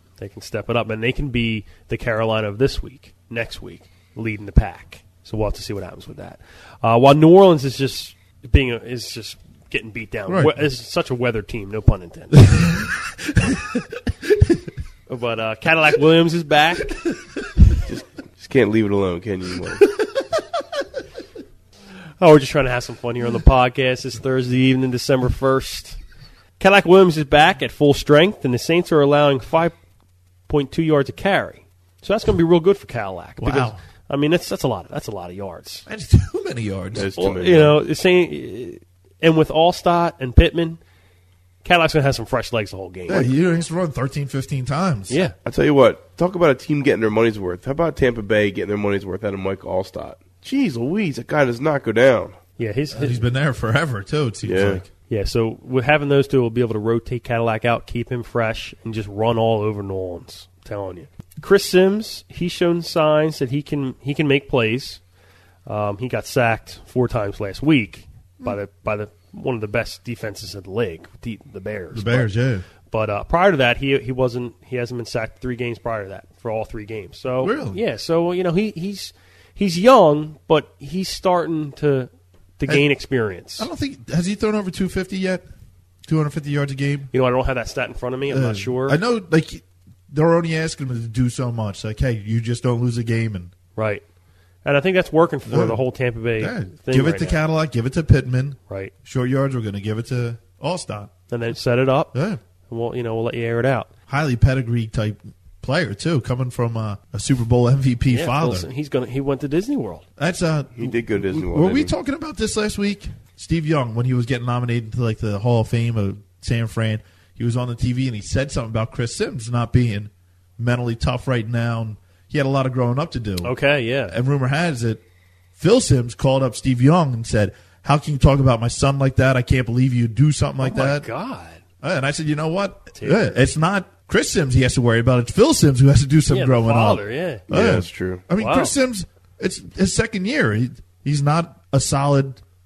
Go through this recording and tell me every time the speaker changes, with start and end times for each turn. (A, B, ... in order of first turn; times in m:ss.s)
0:00.2-0:12.8 A
0:10.3-0:10.6 B
0:12.4-0:14.6 B
0:15.1-0:17.0 A
0:17.8-0:19.8 C
0:22.2-0:26.0 A
0:26.6-0:29.8 A
0:30.5-0:35.9 A
0:33.4-0:33.8 B
0:35.9-0:37.1 B
0:36.9-0:37.8 C
0:37.2-0:40.8 A
0:41.6-0:43.3 A
0:43.1-0:45.2 B
0:45.1-0:45.4 A
0:45.4-0:52.4 C
0:52.6-0:53.2 A
0:52.9-0:54.9 B
0:54.4-0:54.8 C
0:55.1-1:05.0 A
1:05.7-1:12.3 A
1:11.9-1:12.6 B
1:12.9-1:23.7 A
1:17.4-1:17.8 B
1:23.6-1:25.5 B
1:26.1-1:27.1 B
1:27.1-1:29.0 A
1:28.3-1:33.5 B
1:33.8-1:34.0 A
1:34.6-1:37.4 A
1:35.5-1:35.8 B
1:36.4-1:41.1 B
1:41.3-1:42.1 A
1:42.1-1:42.4 B
1:42.7-1:43.9 A
1:44.1-1:48.7 B
1:48.1-1:50.0 A
1:50.2-2:03.5 B
1:50.8-1:51.9 C
2:03.4-2:04.2 A
2:04.1-2:05.0 B
2:05.6-2:11.1 B
2:10.6-2:11.6 A
2:11.8-2:22.4 B
2:12.9-2:13.4 A
2:16.3-2:17.4 A
2:17.5-2:18.2 C
2:18.4-2:18.7 A